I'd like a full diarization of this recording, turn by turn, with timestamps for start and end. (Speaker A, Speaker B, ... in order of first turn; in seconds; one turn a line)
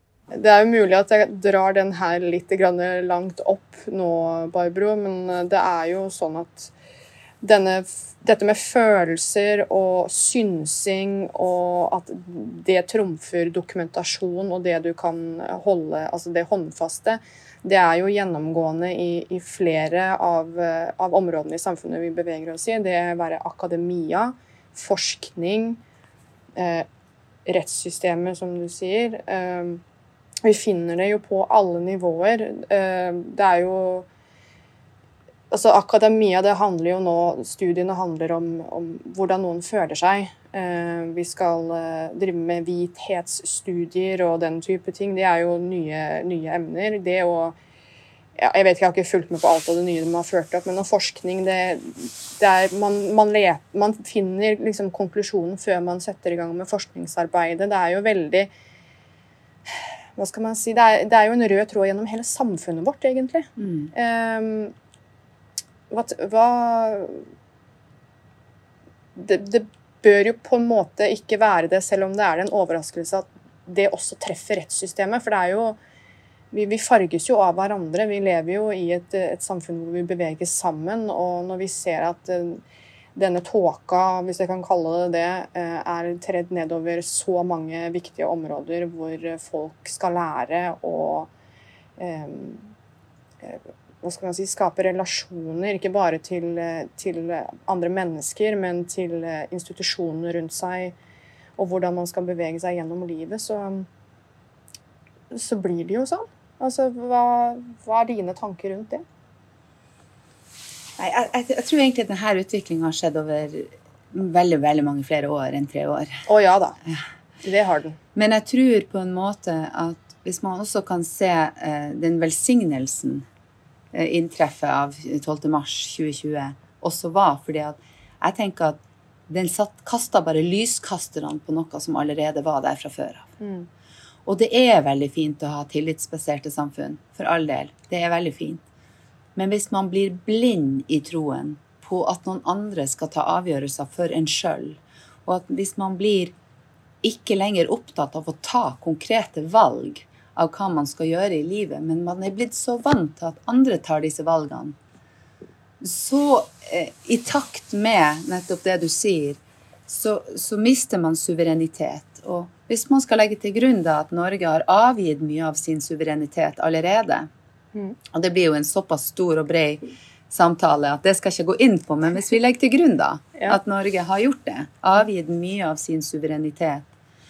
Speaker A: 0.3-6.7
Speaker A: 7.4-25.8
Speaker A: 26.6-26.9
Speaker A: 27.5-29.8
Speaker A: 30.4-34.1
Speaker A: 35.5-47.6
Speaker A: 48.4-58.5
Speaker A: 60.2-64.7
Speaker B: 63.6-63.9
Speaker A: 65.9-67.2
Speaker A: 69.2-75.8
Speaker A: 76.5-82.6
Speaker A: 83.2-91.3
Speaker A: 92.0-92.7
Speaker A: 93.4-101.0
Speaker A: 101.6-103.9
Speaker A: 105.3-109.0
Speaker B: 111.0-116.3
Speaker A: 116.3-116.8
Speaker A: 117.4-118.0
Speaker B: 118.2-123.3
Speaker B: 123.9-133.4
Speaker A: 133.4-133.7
Speaker B: 134.3-138.6
Speaker B: 139.4-146.3
Speaker B: 147.0-154.8
Speaker B: 155.8-167.3
Speaker B: 168.1-176.9